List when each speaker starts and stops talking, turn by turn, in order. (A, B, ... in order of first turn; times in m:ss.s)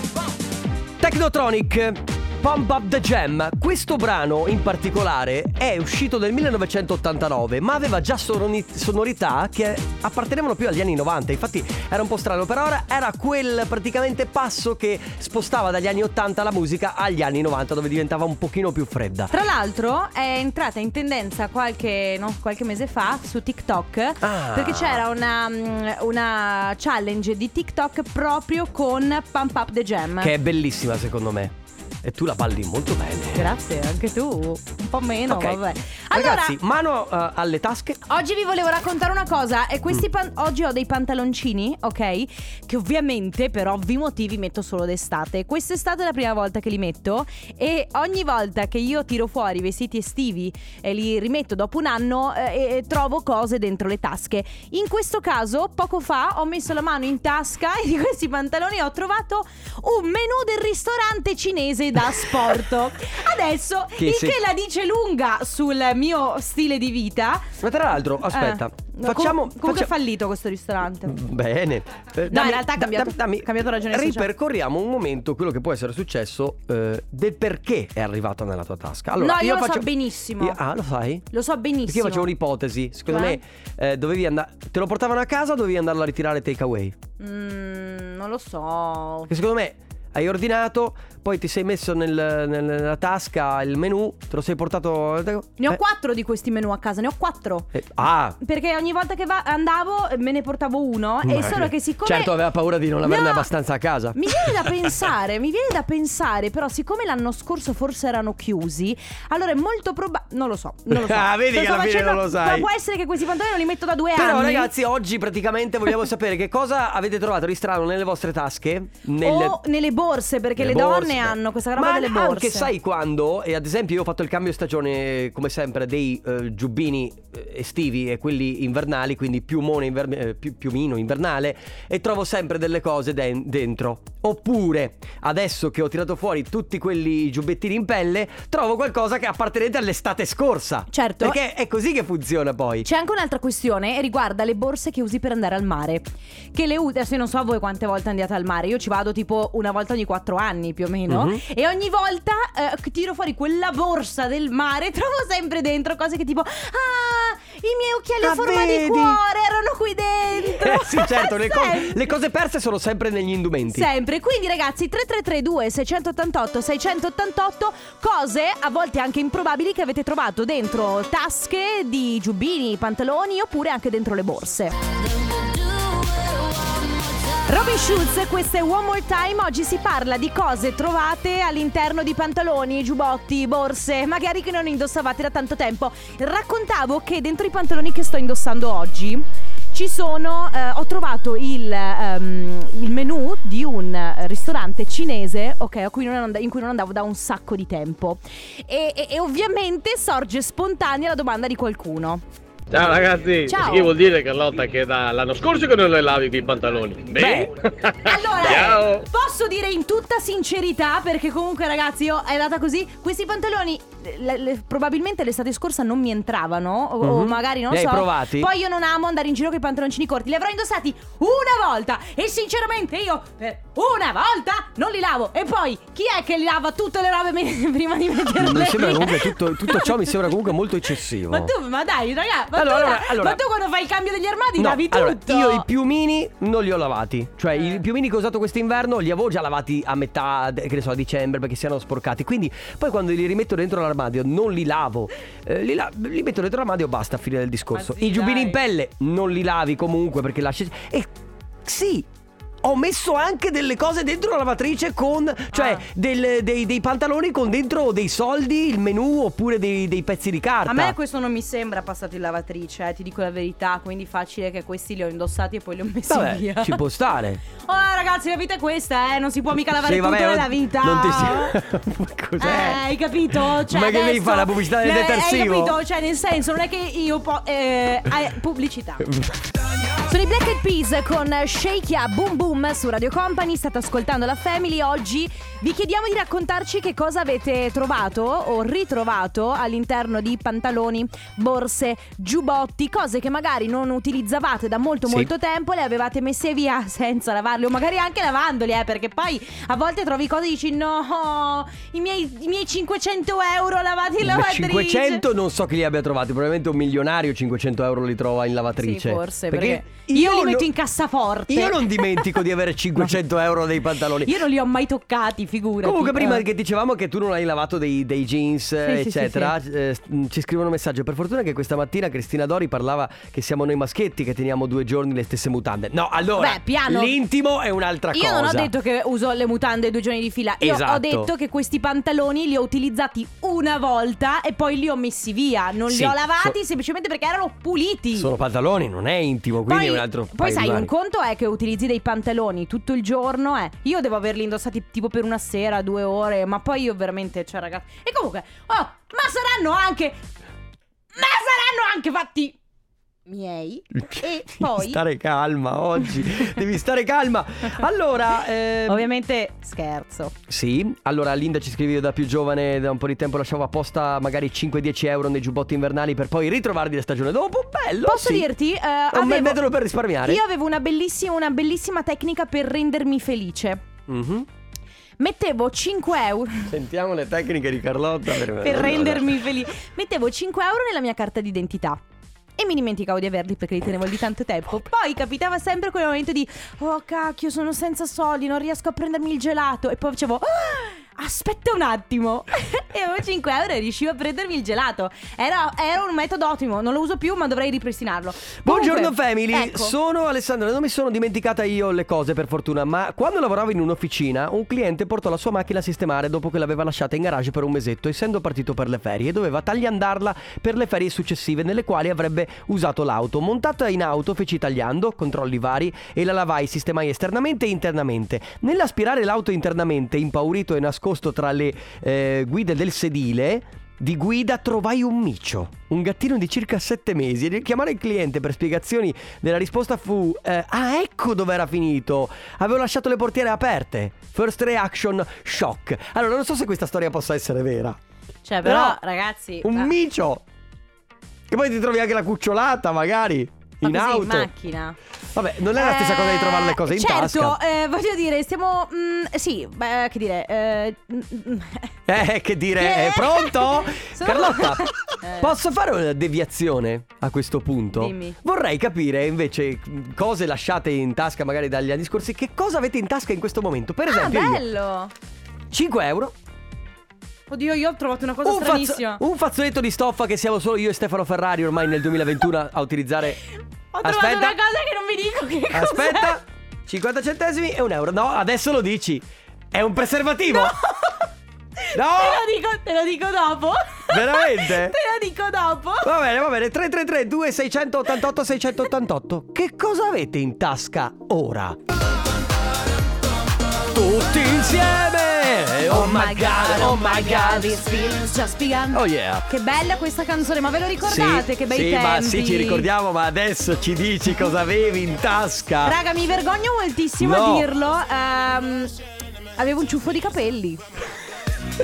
0:01.0-0:19.3 A
0:19.3-0:30.3 B
0:24.2-0:25.0 A
0:30.2-0:33.5 A
0:33.3-0:36.6 B
0:35.3-0:38.0 A
0:38.1-1:07.6 B
1:02.1-1:02.5 A
1:04.0-1:04.4 A
1:07.6-1:09.9 A
1:08.3-1:11.2 B
1:11.0-1:21.3 A
1:12.3-1:14.3 B
1:19.2-1:20.6 B
1:21.3-1:22.3 B
1:21.8-1:27.0 A
1:23.1-1:23.4 B
1:27.2-1:29.3 B
1:29.3-1:35.8 A
1:35.6-1:37.7 B
1:37.7-1:38.4 A
1:38.4-1:42.4 B
1:41.2-1:44.7 A
1:43.0-1:43.5 B
1:44.1-1:54.7 B
1:50.9-1:52.7 A
1:54.1-1:59.6 A
1:59.2-2:02.7 B
2:00.6-2:22.9 A
2:20.9-2:21.4 B
2:22.8-2:42.1 B
2:31.1-2:31.4 A
2:38.2-2:39.2 A
2:40.4-2:43.9 A
2:43.7-2:54.8 B
2:57.4-3:22.2 B
3:22.7-3:29.0 C
3:23.5-3:23.9 B
3:27.1-3:27.5 A
3:28.0-3:50.4 B
3:37.0-3:38.5 A
3:48.4-3:51.5 A
3:51.3-3:55.6 B
3:52.5-3:53.4 A
3:54.6-4:11.1 A
3:57.5-3:57.8 B
4:07.7-4:08.6 B
4:11.6-4:12.1 A
4:12.6-4:20.9 A
4:15.5-4:15.8 B
4:20.6-4:26.8 B
4:26.1-4:27.4 A
4:27.6-4:31.6 B
4:29.8-4:35.8 A
4:32.4-4:39.1 B
4:39.0-4:39.4 A
4:40.0-5:05.2 B
5:04.2-5:10.7 A
5:08.8-5:12.4 B
5:11.5-5:14.4 A
5:14.0-5:16.4 B
5:15.8-5:28.7 A
5:18.8-5:19.5 B
5:26.4-5:27.2 B
5:28.1-5:38.3 B
5:30.6-5:31.3 A
5:35.9-5:36.6 A
5:38.2-5:40.9 A
5:39.6-5:50.2 B
5:51.1-5:52.6 B
5:53.3-5:55.0 B
5:53.9-5:59.0 A
5:58.9-6:00.3 B
6:00.5-6:08.5 A
6:08.0-6:09.6 B
6:09.1-6:10.4 A
6:10.2-6:13.8 B
6:14.1-6:14.5 A
6:15.2-6:16.7 B
6:16.7-6:19.4 A
6:18.5-6:22.0 B
6:22.6-6:39.9 B
6:38.6-7:18.0 A
7:18.4-7:19.9 B
7:18.6-7:19.0 A
7:19.6-7:20.4 A
7:21.5-7:24.5 A
7:23.8-7:25.0 B
7:25.3-7:27.6 A
7:25.8-7:32.0 B
7:32.1-7:44.6 A
7:32.8-7:35.5 B
7:37.9-7:38.4 B
7:44.1-7:45.1 B
7:45.7-7:46.3 A
7:47.5-7:49.2 B
7:48.4-7:53.4 A
7:53.9-7:56.4 B
7:54.0-7:54.6 A
7:55.7-8:00.8 A
8:00.5-8:01.2 B
8:01.9-8:06.1 B
8:01.9-8:02.4 A
8:04.1-8:05.0 A
8:06.0-8:11.8 A
8:13.9-8:17.8 A
8:15.9-8:22.9 B
8:18.9-8:19.5 A
8:21.0-8:26.0 A
8:25.8-8:28.9 B
8:27.2-8:27.7 A
8:29.6-8:30.8 B